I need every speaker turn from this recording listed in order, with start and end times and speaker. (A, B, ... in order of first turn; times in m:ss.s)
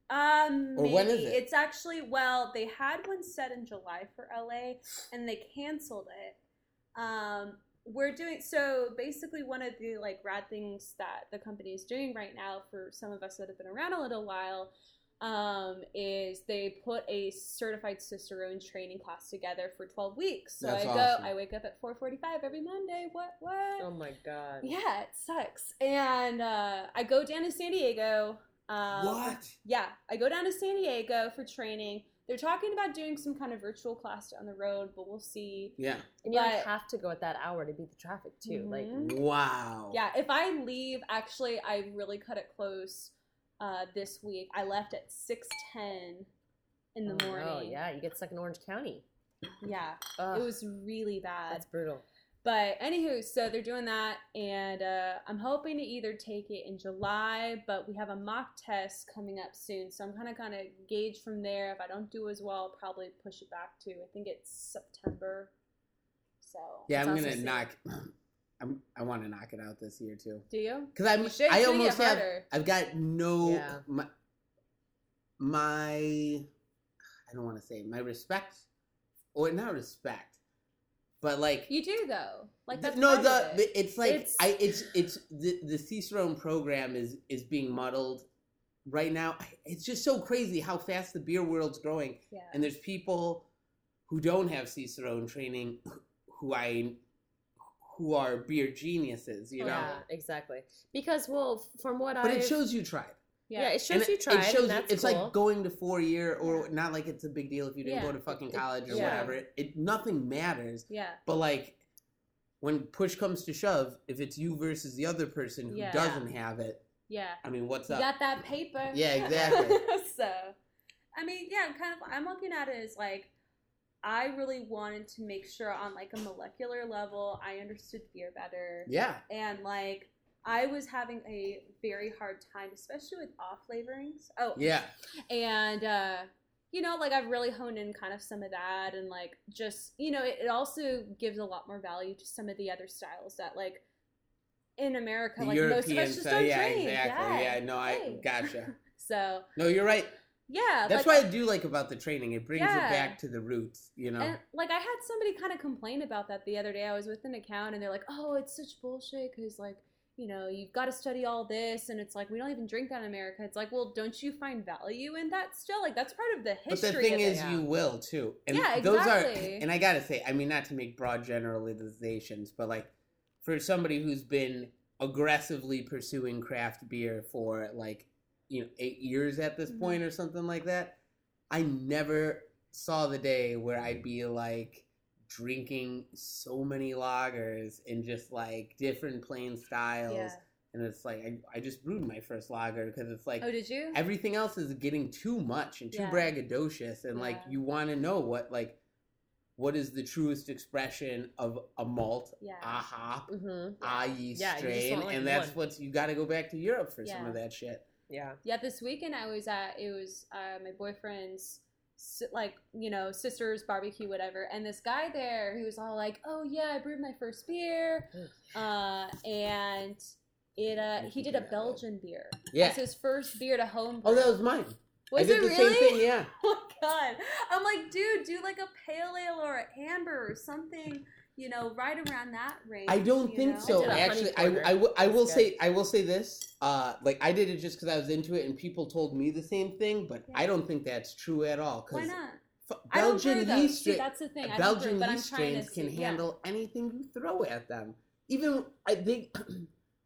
0:00.1-0:06.4 A
0:00.8-0:01.4 B
0:06.9-0:23.9 A
0:20.6-0:21.3 B
0:23.8-0:24.7 C
0:24.6-0:36.7 A
0:28.9-0:29.5 B
0:35.8-0:36.1 B
0:36.2-0:38.9 C
0:38.4-0:39.2 A
0:38.9-0:40.0 B
0:39.9-0:46.3 A
0:46.9-0:47.8 A
0:47.0-0:49.0 C
0:49.6-0:51.6 A
0:50.2-0:50.5 C
0:51.5-0:52.0 C
0:52.4-1:05.5 A
1:06.4-1:07.6 A
1:06.9-1:14.1 B
1:10.5-1:12.4 A
1:13.4-1:13.8 C
1:15.4-1:16.4 B
1:17.3-1:18.7 B
1:19.3-1:20.4 B
1:21.2-1:21.7 B
1:21.7-1:23.7 A
1:22.7-1:28.3 B
1:24.0-1:24.5 C
1:28.8-1:33.5 B
1:32.3-1:32.7 A
1:34.1-1:37.0 B
1:37.7-1:40.0 B
1:39.6-1:42.6 C
1:39.6-1:40.0 A
1:42.2-1:43.2 B
1:43.5-1:43.8 A
1:43.6-1:45.4 C
1:43.9-1:51.8 B
1:46.4-1:46.7 A
1:47.8-1:49.4 A
1:48.5-1:49.3 C
1:50.9-1:51.2 A
1:52.6-1:56.8 B
1:55.7-1:56.3 A
1:57.1-2:00.6 A
1:57.4-1:58.1 B
1:58.9-1:59.8 B
2:01.1-2:03.3 A
2:04.0-2:14.7 A
2:08.9-2:09.2 B
2:14.6-2:14.9 B
2:15.3-2:23.8 A
2:24.8-2:29.5 A
2:25.4-2:28.7 B
2:29.6-2:30.1 B
2:30.5-2:31.3 A
2:30.8-2:34.4 B
2:32.5-2:33.2 A
2:34.2-2:47.6 A
2:46.7-2:52.9 B
2:47.3-2:47.6 C
2:48.5-2:49.7 A
2:53.4-3:01.0 B
2:59.7-3:00.0 A
3:01.5-3:18.8 B
3:10.1-3:10.4 A
3:13.4-3:14.0 A
3:15.9-3:16.3 A
3:17.1-3:17.6 A
3:19.6-3:23.3 B
3:22.4-3:22.8 A
3:23.3-3:25.6 C
3:23.8-3:27.9 B
3:27.0-3:27.4 A
3:28.1-3:28.4 C
3:28.4-3:40.0 A
3:38.1-3:38.5 C
3:40.6-3:44.4 A
3:41.0-3:41.8 B
3:42.5-3:42.8 B
3:44.0-3:46.3 B
3:45.1-3:54.1 A
3:52.9-4:02.1 B
3:53.6-3:55.5 C
4:01.9-4:06.2 A
4:02.7-4:09.7 B